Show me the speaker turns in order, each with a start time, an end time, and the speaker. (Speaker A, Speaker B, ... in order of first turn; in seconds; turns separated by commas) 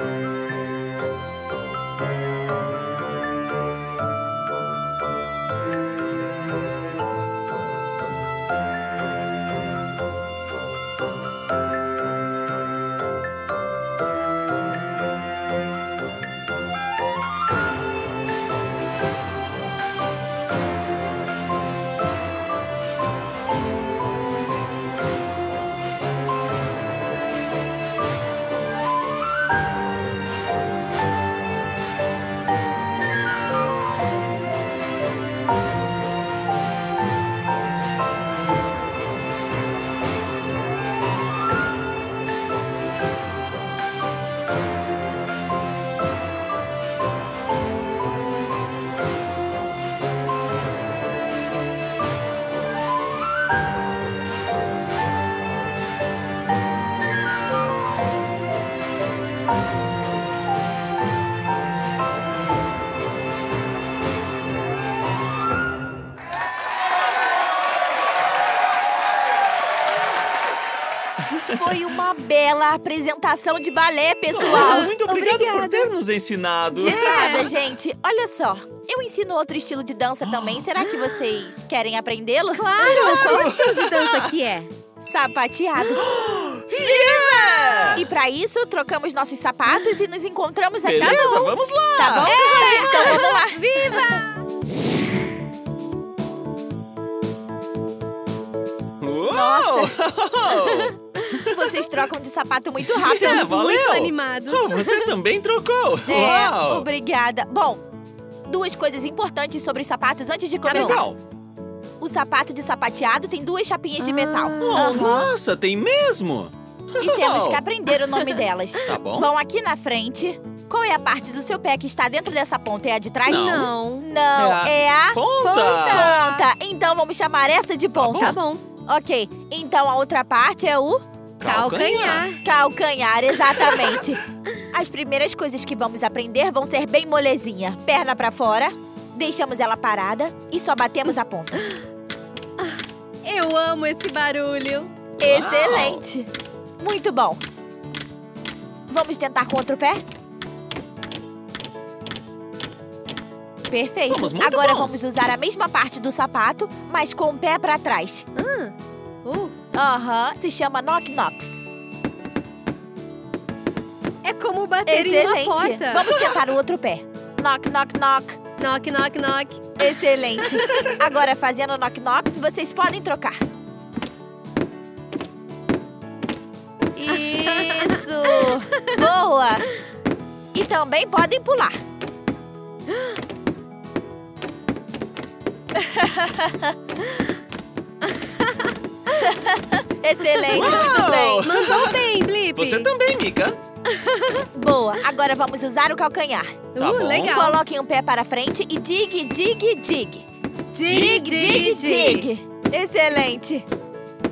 Speaker A: 71.3-71.8, Speaker B: 71.4-74.9, Speaker A: 74.3-77.5, Speaker C: 74.4-75.9, Speaker B: 76.7-83.8, Speaker C: 76.8-77.5, Speaker A: 80.2-80.6, Speaker C: 80.8-81.2, Speaker C: 82.5-84.7, Speaker A: 82.8-84.3, Speaker B: 85.0-86.1, Speaker A: 86.0-88.0, Speaker B: 86.8-94.0, Speaker C: 87.0-88.0, Speaker A: 90.8-93.4, Speaker C: 91.0-91.3, Speaker C: 92.3-94.4, Speaker A: 99.0-102.0, Speaker B: 99.3-100.0, Speaker B: 101.3-103.5, Speaker A: 102.9-106.9, Speaker C: 103.0-105.1, Speaker B: 106.0-107.8, Speaker B: 108.5-111.0, Speaker C: 110.7-111.0, Speaker A: 110.7-111.2, Speaker B: 112.0-115.3, Speaker C: 114.0-115.1, Speaker A: 114.6-117.6, Speaker B: 117.0-131.0, Speaker C: 118.1-118.4, Speaker A: 118.8-119.3, Speaker C: 123.2-124.0, Speaker A: 123.3-123.7, Speaker A: 124.3-126.2, Speaker C: 125.8-126.5, Speaker A: 128.0-128.4, Speaker C: 128.1-128.6, Speaker A: 131.4-132.3, Speaker C: 131.4-132.4, Speaker B: 132.4-141.7, Speaker A: 133.7-134.0, Speaker C: 142.6-144.9, Speaker A: 145.2-146.0, Speaker B: 145.2-146.3, Speaker B: 146.8-147.4, Speaker B: 148.9-150.0, Speaker B: 153.7-158.2, Speaker A: 154.1-155.0, Speaker C: 158.3-158.7, Speaker C: 159.2-159.5, Speaker B: 159.7-161.6, Speaker C: 164.2-166.3, Speaker B: 164.8-168.4, Speaker C: 168.6-170.6, Speaker B: 169.8-173.4, Speaker B: 176.9-179.7, Speaker C: 177.1-179.1, Speaker B: 180.5-181.8, Speaker B: 185.7-186.7, Speaker C: 188.0-189.2, Speaker B: 189.1-191.4, Speaker C: 190.4-192.9, Speaker A: 190.5-192.0, Speaker A: 192.5-193.6, Speaker C: 193.9-194.5, Speaker B: 194.5-196.6, Speaker C: 196.7-197.6, Speaker A: 196.8-197.4, Speaker B: 197.2-200.2, Speaker C: 200.7-202.3, Speaker A: 200.8-201.5, Speaker B: 200.8-203.7